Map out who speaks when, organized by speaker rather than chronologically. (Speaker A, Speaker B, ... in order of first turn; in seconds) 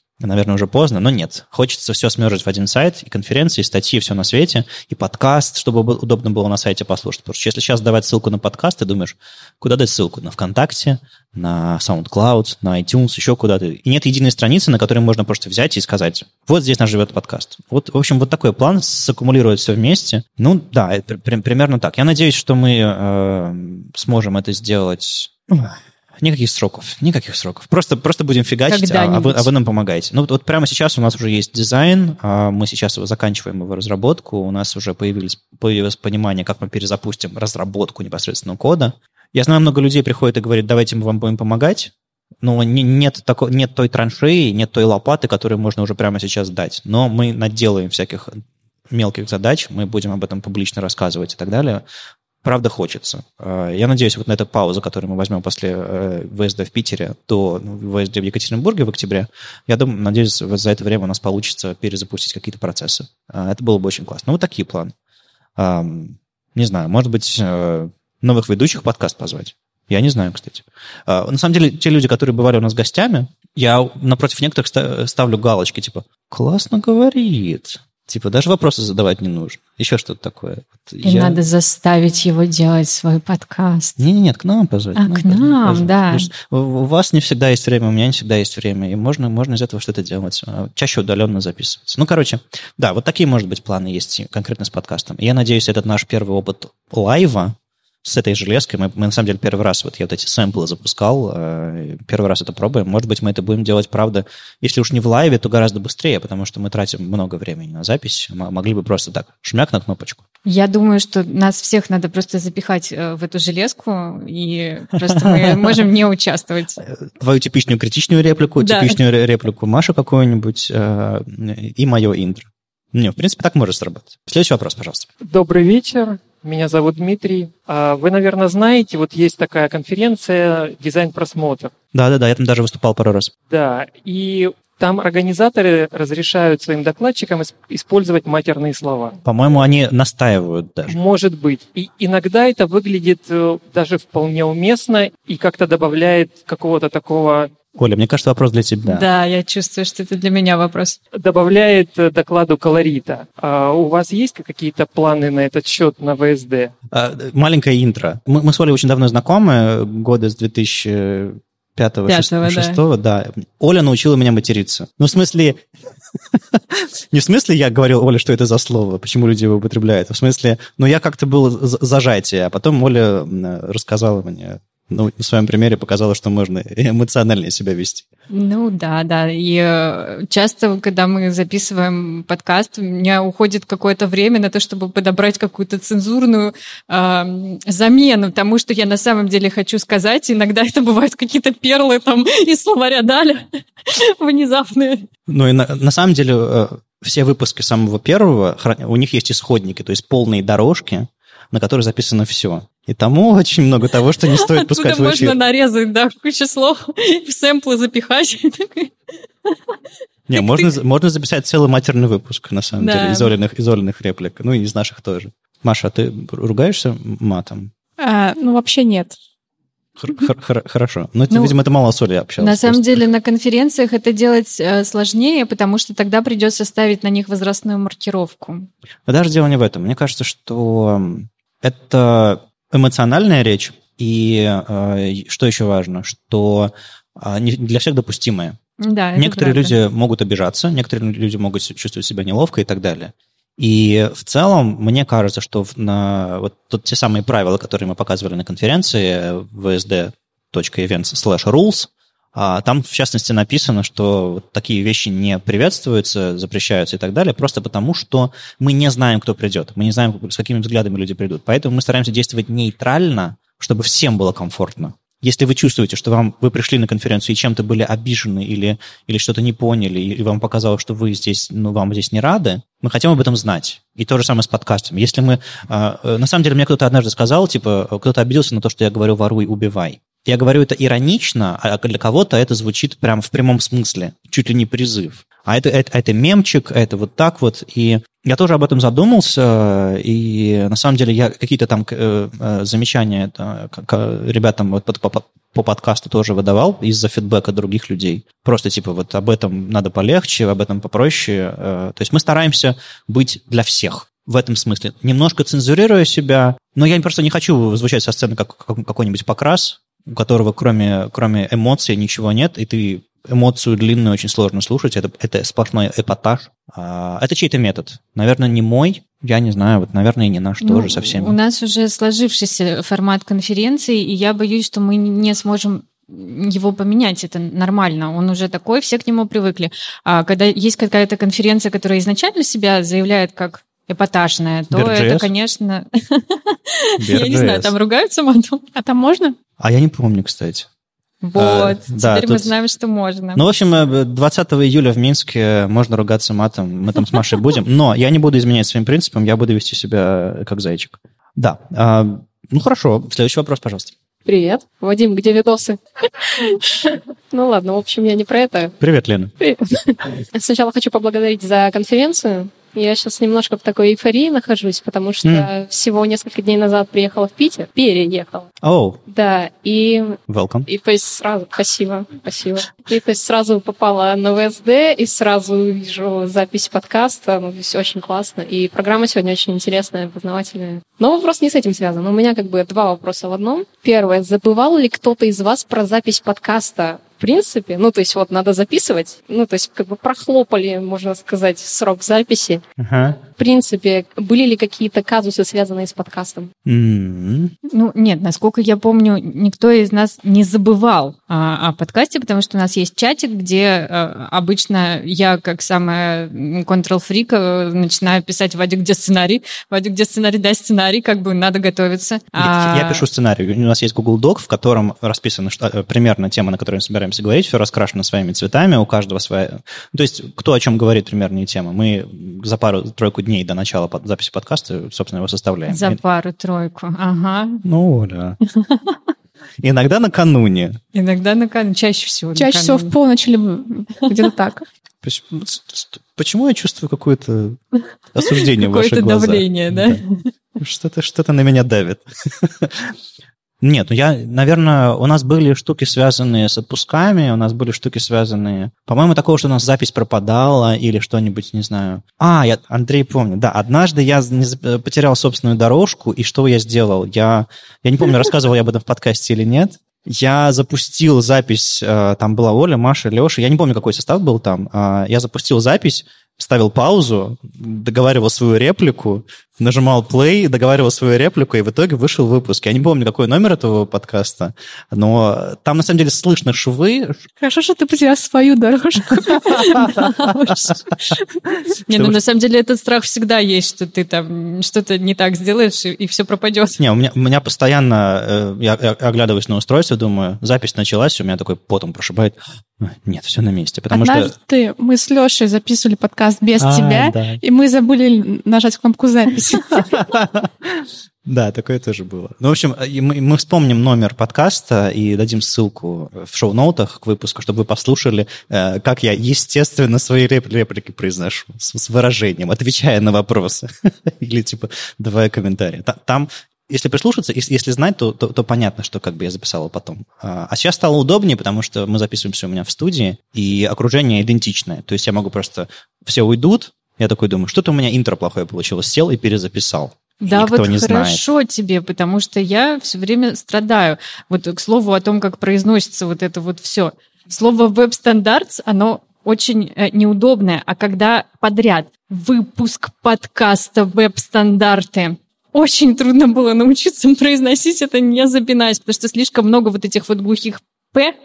Speaker A: 0.2-51.8, 52.4-64.9, 65.6-81.4, 84.0-110.2, 115.1-115.9, 116.8-125.1, 131.9-133.3, 139.2-141.0, 147.7-149.1, 156.9-165.6, 166.3-178.1, 195.3-205.4, 210.3-217.7, 220.0-223.0, 229.1-238.6, 239.2-321.4, 334.7-335.3, 337.0-337.7, 339.6-340.7, 341.4-342.5, 343.3-353.9, 358.8-359.3, 368.6-369.0, 370.3-370.7, 392.8-393.2, 396.6-397.5, 412.4-426.0, 427.6-428.4, 429.6-430.8, 435.0-437.6, 438.1-440.0, 440.6-442.9, 443.6-477.2, 479.6-480.5, 481.9-482.2, 486.8-494.3, 496.6-497.4, 499.5-531.2
Speaker B: 28.7-29.5, 81.0-84.0, 85.0-86.3, 110.5-116.8, 118.6-119.0, 148.8-151.0, 162.1-162.8, 178.3-195.1, 204.3-208.9, 210.3-210.7, 212.8-213.3, 221.3-221.6, 222.4-228.7, 238.8-239.8, 320.6-338.6, 341.2-343.4, 397.7-413.0, 425.7-427.6, 428.6-428.9, 430.9-432.9, 438.2-440.3, 479.8-480.7, 481.9-486.8, 530.2-551.1
Speaker C: 125.2-131.7, 133.5-139.2, 140.9-147.5, 151.1-156.7
Speaker D: 218.0-219.2, 338.8-339.4, 432.3-434.6, 477.4-479.9, 493.9-499.9
Speaker E: 354.3-358.7, 359.4-368.5, 369.1-392.6, 393.3-396.5